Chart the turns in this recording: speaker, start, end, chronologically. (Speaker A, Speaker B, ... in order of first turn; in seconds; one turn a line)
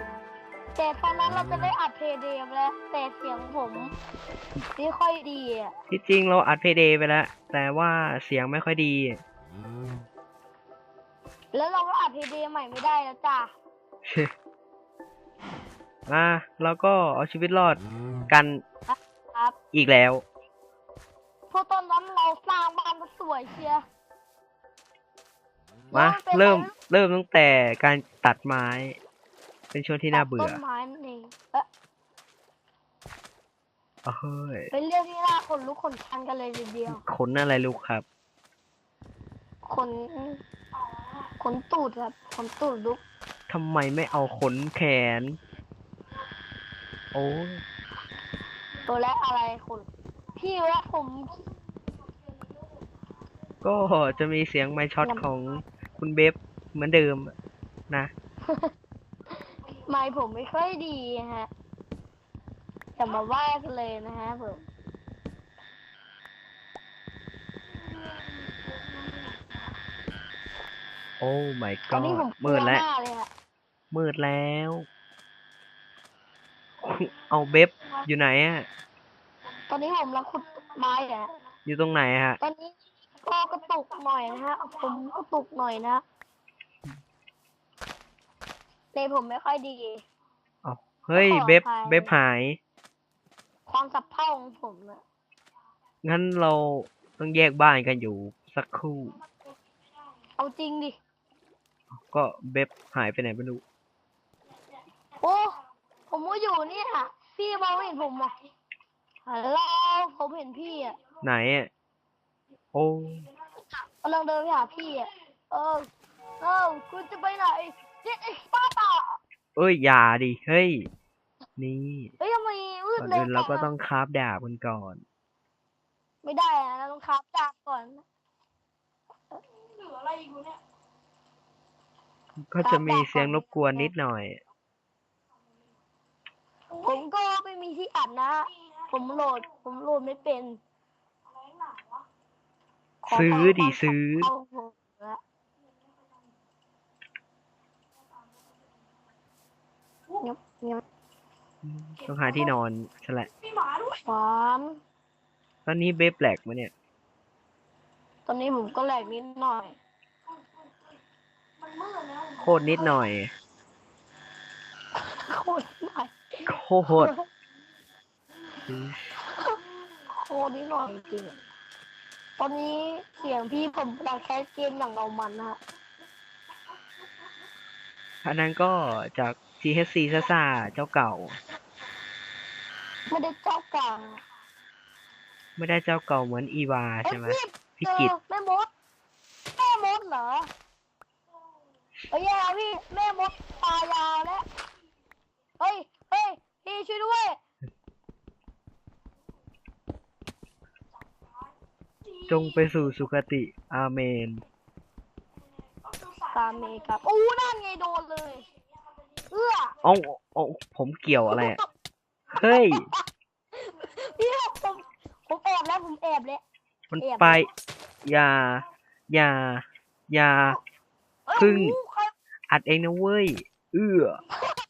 Speaker A: 0.8-3.9
Speaker A: 4.8-5.7
Speaker B: 5.9-9.2
Speaker A: 11.5-13.5
Speaker B: 14.1-14.3
Speaker B: 16.1-18.6
Speaker A: 18.9-19.6
Speaker B: 19.7-20.2
Speaker A: 21.5-23.8
Speaker A: 25.9-26.7
Speaker B: 25.9-29.0
Speaker B: 29.7-30.6
Speaker A: 30.1-31.7
Speaker B: 34.0-34.7
Speaker A: 34.7-37.0
Speaker B: 36.9-38.0
Speaker A: 39.6-40.4
Speaker A: 41.4-43.0
Speaker B: 43.5-45.4
Speaker B: 47.1-47.6
Speaker A: 48.9-51.4
Speaker B: 53.6-57.3
Speaker A: 59.8-61.5
Speaker A: 63.0-64.6
Speaker B: 71.2-72.8
Speaker A: 71.9-73.3
Speaker B: 73.9-74.9
Speaker B: 76.8-78.7
Speaker A: 79.7-81.3
Speaker B: 81.7-82.4
Speaker A: 82.4-86.0
Speaker A: 88.9-90.0
Speaker B: 90.6-92.6
Speaker A: 91.1-92.1
Speaker A: 93.7-95.0
Speaker B: 96.0-99.2
Speaker A: 100.4-101.0
Speaker B: 101.9-103.6
Speaker A: 105.2-105.6
Speaker A: 106.1-108.4
Speaker A: 109.2-111.0
Speaker B: 111.2-111.7
Speaker B: 112.7-113.3
Speaker A: 114.0-115.9
Speaker A: 116.4-119.2
Speaker B: 119.5-120.9
Speaker B: 121.6-122.1
Speaker A: 122.2-123.7
Speaker B: 123.0-125.0
Speaker A: 126.2-128.0
Speaker B: 132.5-134.4
Speaker A: 132.6-133.9
Speaker A: 136.8-140.6
Speaker A: 143.0-145.2
Speaker B: 143.1-144.3
Speaker A: 150.2-150.8
Speaker B: 151.6-153.3
Speaker A: 153.9-154.8
Speaker B: 155.7-156.7
Speaker A: 158.3-159.8
Speaker B: 162.4-163.3
Speaker A: 165.0-166.2
Speaker B: 166.4-167.1
Speaker A: 166.9-167.2
Speaker B: 168.7-169.0
Speaker A: 170.1-171.4
Speaker A: 172.4-175.6
Speaker B: 178.2-181.4
Speaker A: 183.1-184.2
Speaker B: 185.6-188.1
Speaker A: 187.0-188.7
Speaker A: 189.5-190.5
Speaker A: 192.1-194.4
Speaker A: 195.6-197.4
Speaker B: 202.3-204.4
Speaker A: 206.3-208.5
Speaker A: 209.3-209.8
Speaker B: 209.8-211.6
Speaker B: 212.3-212.9
Speaker A: 212.4-213.0
Speaker A: 213.5-216.4
Speaker B: 216.9-217.5
Speaker A: 217.0-217.5
Speaker B: 218.0-220.6
Speaker A: 221.3-222.1
Speaker B: 221.3-221.8
Speaker B: 222.5-224.2